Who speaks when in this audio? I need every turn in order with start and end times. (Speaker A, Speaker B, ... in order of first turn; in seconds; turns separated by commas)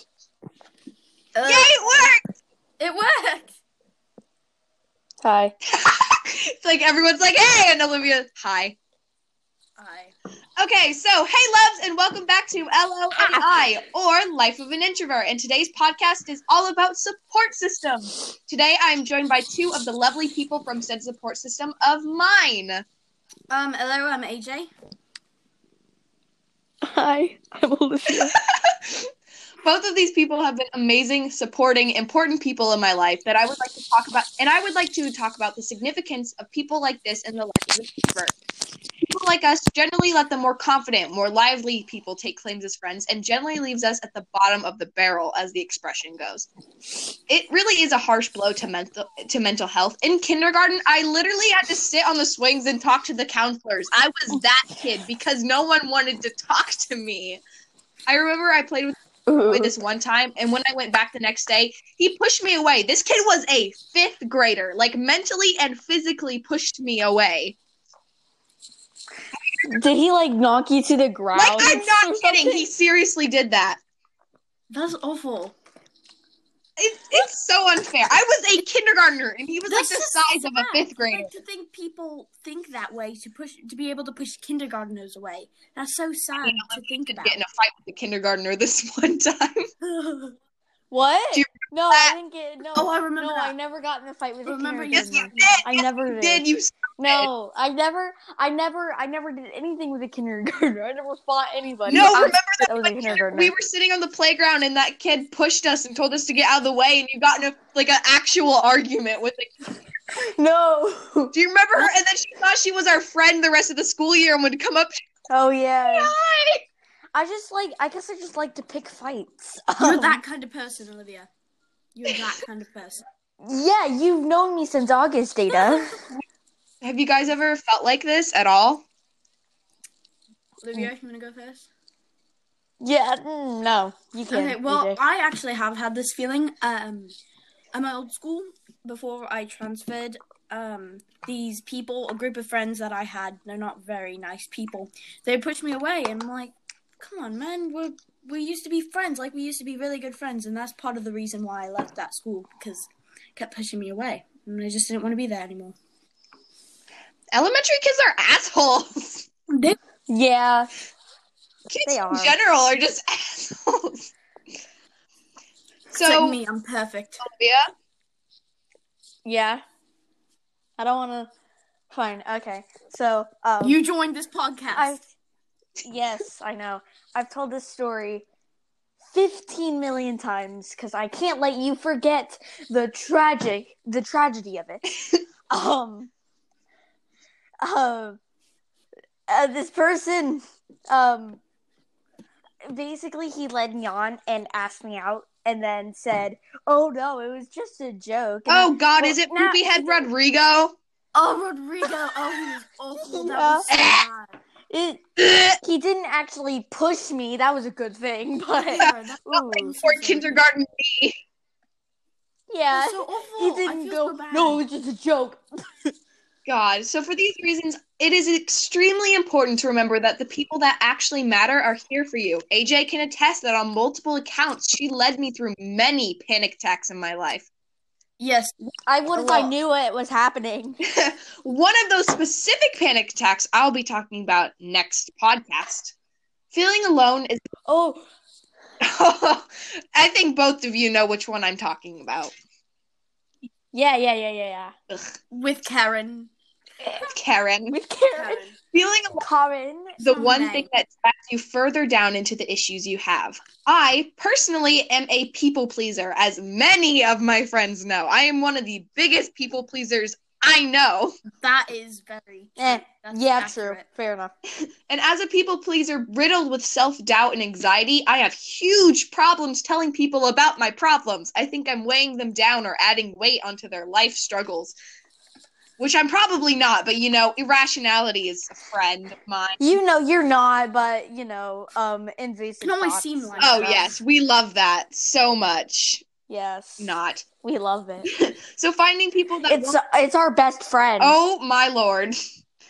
Speaker A: 1.3-2.1, Speaker B: 1.4-2.2, Speaker A: 2.8-3.5, Speaker C: 5.2-5.5, Speaker B: 5.7-8.8, Speaker A: 9.8-10.1, Speaker B: 10.6-22.8, Speaker A: 23.5-24.7, Speaker C: 26.8-28.4, Speaker B: 28.6-29.0, Speaker B: 29.6-38.3, Speaker B: 39.1-46.5, Speaker B: 47.3-57.4, Speaker B: 58.1-58.9, Speaker C: 59.3-59.8, Speaker B: 59.5-67.6, Speaker C: 69.6-72.7, Speaker B: 71.3-73.8, Speaker A: 74.7-75.5, Speaker B: 76.8-81.3, Speaker A: 79.7-87.4, Speaker B: 86.4-89.6, Speaker A: 89.8-90.3, Speaker C: 90.9-96.4, Speaker B: 91.3-92.2, Speaker A: 92.7-93.5, Speaker A: 94.4-95.6, Speaker B: 94.9-97.3, Speaker C: 97.0-103.5, Speaker B: 101.9-109.5, Speaker A: 101.9-102.3, Speaker C: 110.1-111.9, Speaker B: 111.3-114.9, Speaker C: 115.3-116.1, Speaker B: 115.8-116.6, Speaker C: 117.1-120.2, Speaker A: 119.8-121.3, Speaker A: 121.9-123.0, Speaker C: 123.4-126.0, Speaker B: 126.8-128.8, Speaker A: 130.6-131.7, Speaker C: 132.8-135.0, Speaker A: 134.3-137.1, Speaker A: 137.7-155.7, Speaker B: 157.3-159.2, Speaker A: 159.5-159.8, Speaker C: 160.1-160.7, Speaker B: 161.7-164.0, Speaker C: 161.8-162.4, Speaker B: 165.9-166.4, Speaker A: 166.0-167.2, Speaker B: 167.2-167.6, Speaker C: 169.2-169.6, Speaker C: 170.8-171.3, Speaker C: 171.9-173.8, Speaker A: 173.6-174.9, Speaker C: 174.7-175.0, Speaker C: 175.8-178.2, Speaker C: 179.1-184.8, Speaker C: 185.5-186.1, Speaker C: 187.6-188.2, Speaker C: 189.3-191.4, Speaker C: 192.6-200.1, Speaker B: 198.5-200.8, Speaker A: 201.1-204.3, Speaker C: 203.0-203.7, Speaker B: 203.7-204.1, Speaker C: 204.7-205.0, Speaker B: 205.2-205.6, Speaker C: 205.6-209.8, Speaker A: 208.6-210.4, Speaker B: 209.7-211.2, Speaker C: 212.5-215.9, Speaker A: 212.7-214.6, Speaker B: 216.4-227.5, Speaker A: 228.2-228.5, Speaker C: 228.9-230.8, Speaker A: 229.1-229.5, Speaker B: 230.9-235.9, Speaker B: 236.5-237.4, Speaker C: 237.7-238.0, Speaker B: 238.8-242.3, Speaker C: 243.7-244.7, Speaker A: 245.3-246.3, Speaker C: 246.8-247.1, Speaker B: 247.1-247.8, Speaker C: 247.7-248.4, Speaker A: 248.1-248.6, Speaker B: 248.7-249.2, Speaker C: 249.2-250.0, Speaker B: 250.0-261.2, Speaker A: 250.0-250.7, Speaker A: 261.4-263.8, Speaker C: 262.6-264.3, Speaker B: 264.9-274.8, Speaker B: 275.8-279.8, Speaker C: 279.6-283.3, Speaker A: 282.6-283.9, Speaker B: 283.4-286.0, Speaker C: 286.3-286.9, Speaker B: 286.8-287.2, Speaker C: 287.4-288.1, Speaker B: 288.2-289.8, Speaker C: 289.5-291.2, Speaker B: 291.0-292.1